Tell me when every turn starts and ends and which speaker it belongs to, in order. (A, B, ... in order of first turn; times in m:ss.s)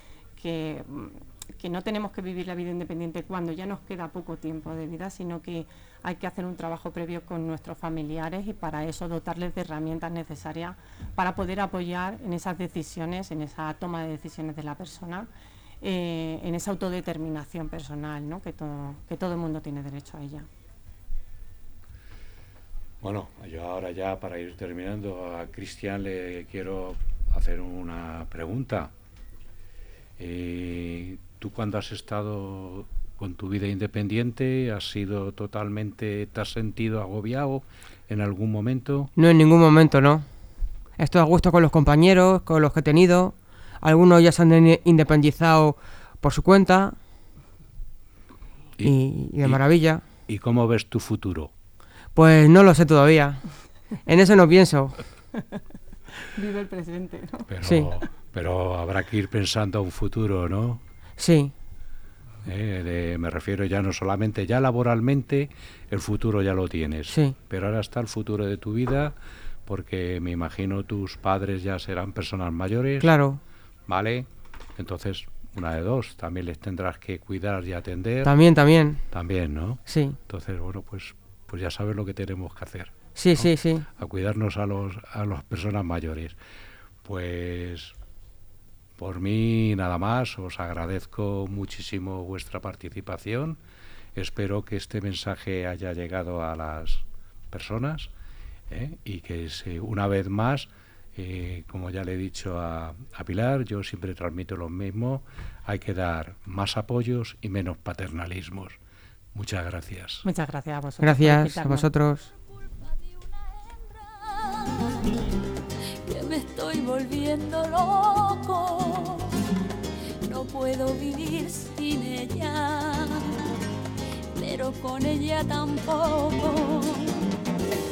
0:00.4-0:15.3 A
0:15.8-0:20.5 A
0:23.0-0:28.9 B
0:30.2-0:39.1 B
0:39.2-0:40.2 C
0:41.0-0:47.0 C
0:48.8-0:49.6 B
0:48.8-0:50.0 C
0:50.3-0:51.5 B
0:52.2-0:55.0 C
0:56.2-0:57.5 A
0:57.5-1:00.8 B
0:57.6-0:57.9 C
1:01.2-1:01.5 C
1:02.4-1:09.2 B
1:09.7-1:13.1 B
1:13.0-1:13.4 C
1:13.9-1:18.3 B
1:18.2-1:19.0 C
1:19.1-1:26.4 B
1:19.9-1:20.2 C
1:23.2-1:23.9 C
1:27.0-1:28.0 B
1:29.0-1:33.6 B
1:34.2-1:38.1 B
1:38.7-1:48.8 B
1:49.3-1:50.3 B
1:50.2-1:51.9 A
1:51.0-1:52.3 C
1:52.3-1:59.4 D
2:00.2-2:03.5 D
2:04.3-2:07.3 D